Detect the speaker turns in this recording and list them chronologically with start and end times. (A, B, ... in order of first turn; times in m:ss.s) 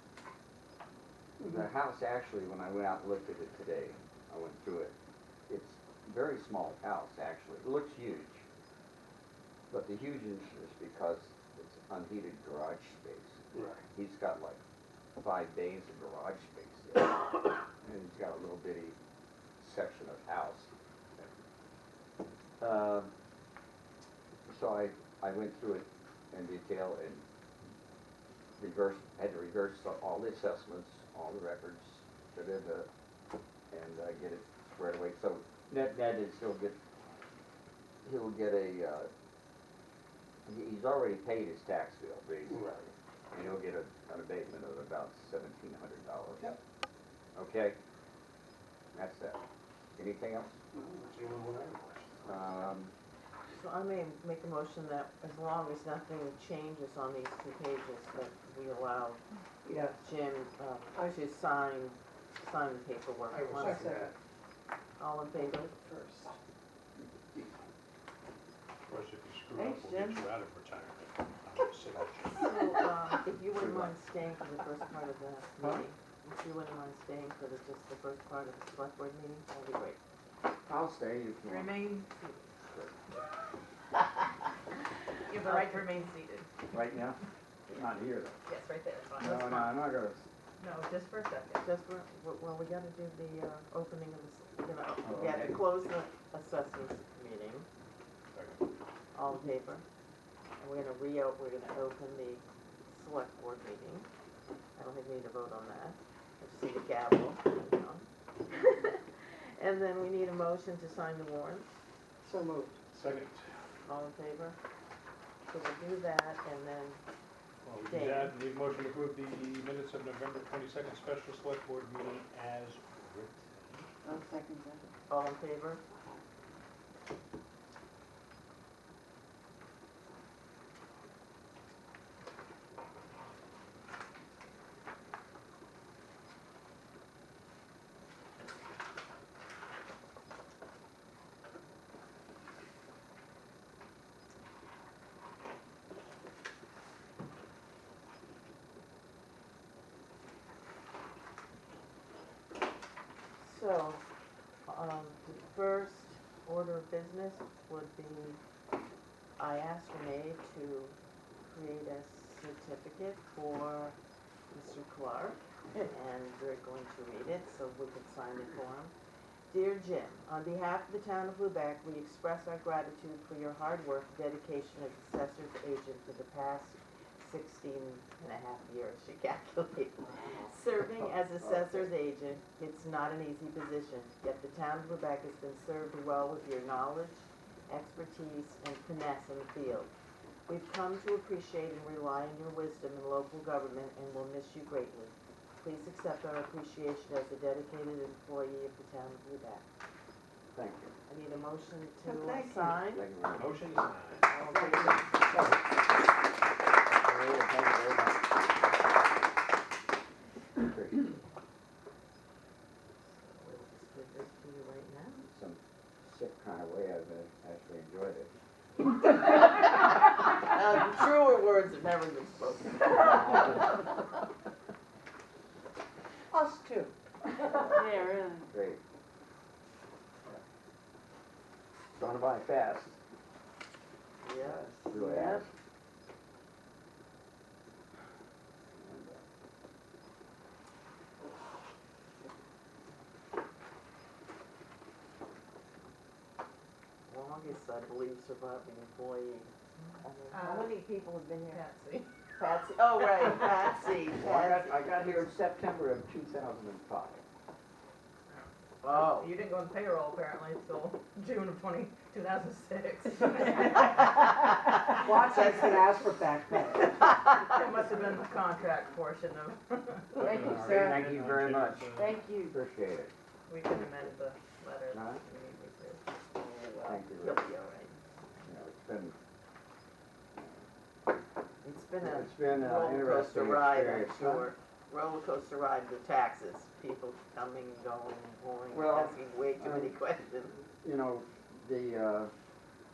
0:01.4-0:05.0 A
0:05.5-0:08.4 A
0:09.7-0:13.4 A
0:13.5-0:13.8 B
0:13.9-0:14.6 A
0:15.2-0:19.0 A
0:19.6-0:21.3 A
0:22.6-0:23.1 A
0:24.5-0:27.2 A
0:28.6-0:32.9 A
0:33.7-0:36.8 A
0:38.0-0:39.1 A
0:40.5-0:42.8 A
0:42.5-0:42.9 B
0:43.3-0:46.6 A
0:47.4-0:47.8 A
0:48.9-0:49.4 A
0:50.0-0:50.6 A
0:50.7-0:52.6 B
0:52.2-0:52.9 A
0:53.6-0:59.2 C
0:59.6-1:00.0 D
1:00.0-1:04.0 C
1:03.3-1:04.1 D
1:05.0-1:05.7 C
1:05.7-1:06.4 D
1:08.9-1:12.5 B
1:09.6-1:10.2 D
1:12.4-1:20.0 C
1:13.6-1:13.9 A
1:20.7-1:22.0 A
1:21.4-1:22.1 D
1:22.6-1:23.0 A
1:25.3-1:26.5 E
1:26.7-1:28.4 A
1:28.5-1:29.8 E
1:29.2-1:30.2 A
1:30.6-1:31.6 E
1:31.6-1:37.7 C
1:35.0-1:35.6 A
1:38.3-1:38.6 B
1:39.1-1:39.8 C
1:40.6-1:44.1 C
1:44.8-1:51.7 C
1:52.2-1:52.8 D
1:52.9-1:53.5 B
1:53.8-1:54.6 C
1:55.5-1:57.0 C
1:57.6-2:03.9 B
1:57.8-1:58.4 C
2:04.0-2:04.8 D
2:05.1-2:05.8 C
2:33.4-2:34.0 C
2:34.6-2:38.4 C
2:39.4-2:44.0 C
2:44.5-2:48.9 C
2:49.5-3:09.9 C
3:10.5-3:19.7 C
3:20.6-3:20.9 A
3:21.1-3:23.0 C
3:22.1-3:22.7 D
3:22.9-3:23.6 A
3:23.3-3:24.3 B
3:24.3-3:25.0 C
3:24.5-3:25.5 D
3:27.0-3:28.4 A
3:30.6-3:31.2 A
3:33.2-3:35.3 C
3:35.3-3:38.3 A
3:39.2-3:43.9 C
3:46.3-3:46.7 C
3:47.4-3:48.8 A
3:47.7-3:48.5 D
3:51.9-3:53.0 A
3:54.2-3:54.7 C
3:54.4-3:55.4 D
3:54.8-3:55.5 A
3:58.7-3:59.2 A
4:07.1-4:11.6 C
4:10.3-4:10.9 E
4:11.5-4:12.1 E
4:12.4-4:15.3 C
4:14.2-4:17.2 A
4:18.3-4:24.1 E
4:18.8-4:19.3 C
4:23.5-4:23.9 D
4:24.9-4:27.1 D
4:25.3-4:25.8 C
4:27.1-4:30.3 E
4:30.1-4:32.2 B
4:30.2-4:31.0 D
4:30.4-4:33.1 A
4:32.0-4:32.5 D
4:33.5-4:36.0 E
4:34.9-4:35.2 A
4:36.8-4:37.4 A
4:37.2-4:37.9 C
4:38.4-4:39.2 A
4:40.4-4:40.6 A
4:41.6-4:50.6 C
4:42.0-4:44.5 A
4:48.7-4:49.9 A
4:50.8-4:52.3 A